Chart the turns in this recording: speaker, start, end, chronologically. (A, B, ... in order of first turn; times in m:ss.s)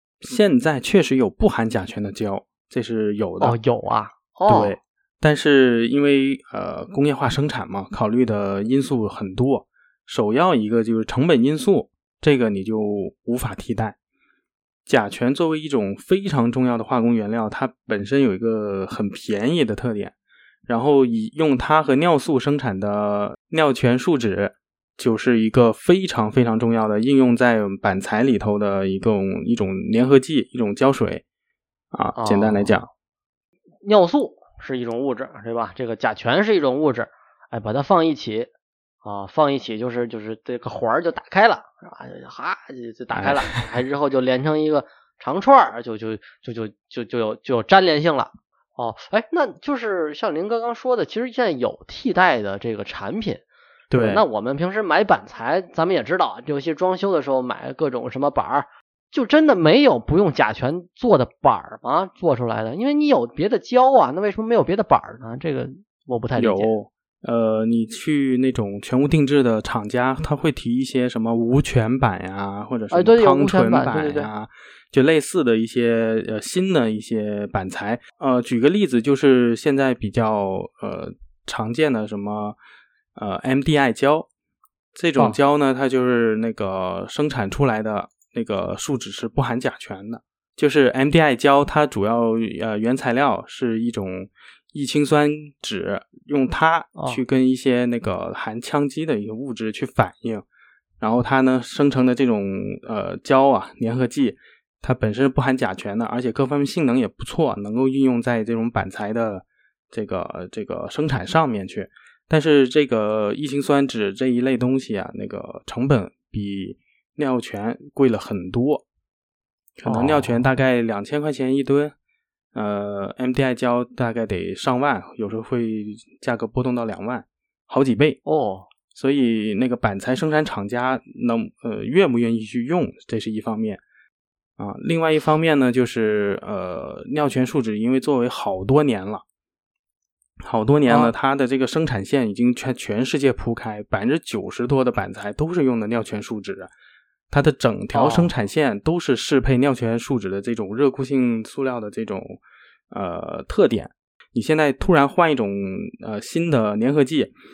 0:00.2-0:03.6 A
0:03.4-0:04.8 B
0:04.5-0:14.0 A
0:14.9-0:20.1 A
0:20.7-0:31.2 A
0:31.9-0:32.9 A
0:32.2-0:32.8 B
0:33.8-0:38.5 B
0:39.0-1:06.7 B
0:43.1-0:43.6 A
0:53.9-0:54.2 A
1:06.4-1:22.6 A
1:12.9-1:14.3 B
1:23.2-1:24.3 A
1:25.0-1:40.4 A
1:37.0-1:37.2 B
1:41.0-1:58.8 A
1:59.8-2:01.9 A
1:59.8-2:00.5 B
2:02.5-2:08.2 A
2:08.2-2:08.7 B
2:08.9-2:13.8 A
2:14.6-2:19.2 A
2:20.4-2:26.7 A
2:20.9-2:21.1 B
2:27.3-2:32.4 A
2:27.9-2:28.3 B
2:32.9-2:37.3 A